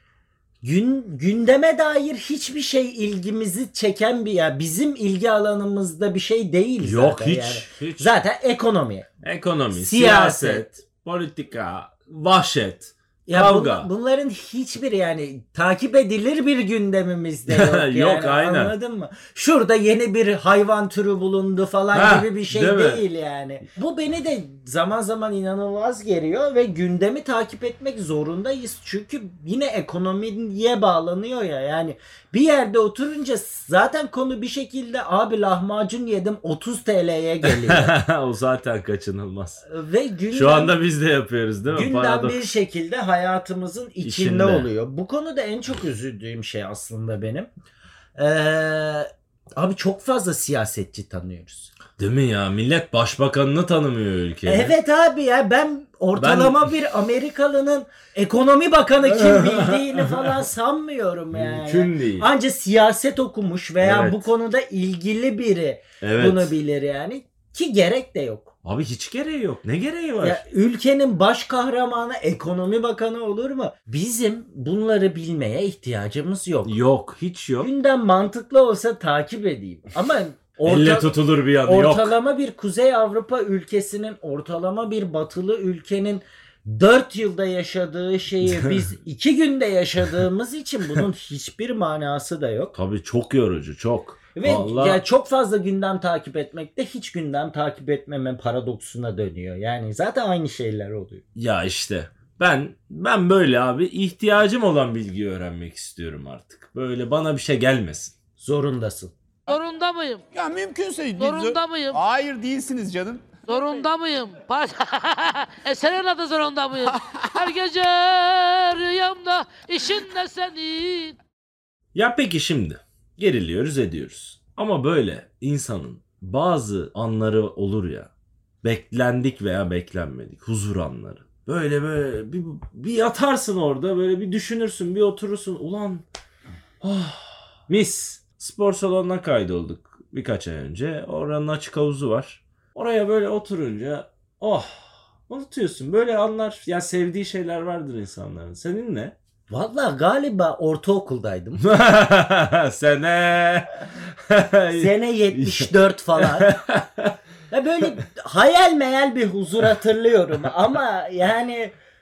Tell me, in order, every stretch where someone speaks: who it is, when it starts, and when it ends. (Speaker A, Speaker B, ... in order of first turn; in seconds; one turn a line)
Speaker A: 0.6-9.1
Speaker B: 6.8-8.1
Speaker B: 9.2-13.9
Speaker A: 9.7-10.7
Speaker A: 13.2-37.9
Speaker B: 17.5-18.7
Speaker B: 21.9-23.0
Speaker B: 37.4-39.6
Speaker A: 39.6-40.7
Speaker B: 40.3-42.4
Speaker A: 41.7-47.5
Speaker B: 44.0-44.7
Speaker A: 48.1-51.7
Speaker B: 52.0-54.7
Speaker A: 54.5-68.5
Speaker B: 56.1-56.7
Speaker B: 59.0-60.4
Speaker B: 61.3-62.3
Speaker B: 63.8-64.2
Speaker B: 66.0-66.5
Speaker B: 68.6-70.4
Speaker A: 70.2-76.8
Speaker B: 76.6-77.7
Speaker A: 77.6-81.1
Speaker B: 80.6-82.1
Speaker A: 81.6-92.8
Speaker B: 88.4-88.8
Speaker B: 92.7-95.0
Speaker A: 94.3-101.2
Speaker B: 101.3-108.1
Speaker A: 108.4-109.1
Speaker C: 109.5-110.2
Speaker D: 110.3-113.2
Speaker C: 111.2-112.0
Speaker C: 113.5-121.2
Speaker B: 121.9-128.1
Speaker B: 128.6-136.0
Speaker B: 136.8-149.1
Speaker A: 149.5-151.6
Speaker B: 151.6-157.1
Speaker A: 154.7-156.5
Speaker A: 157.5-161.7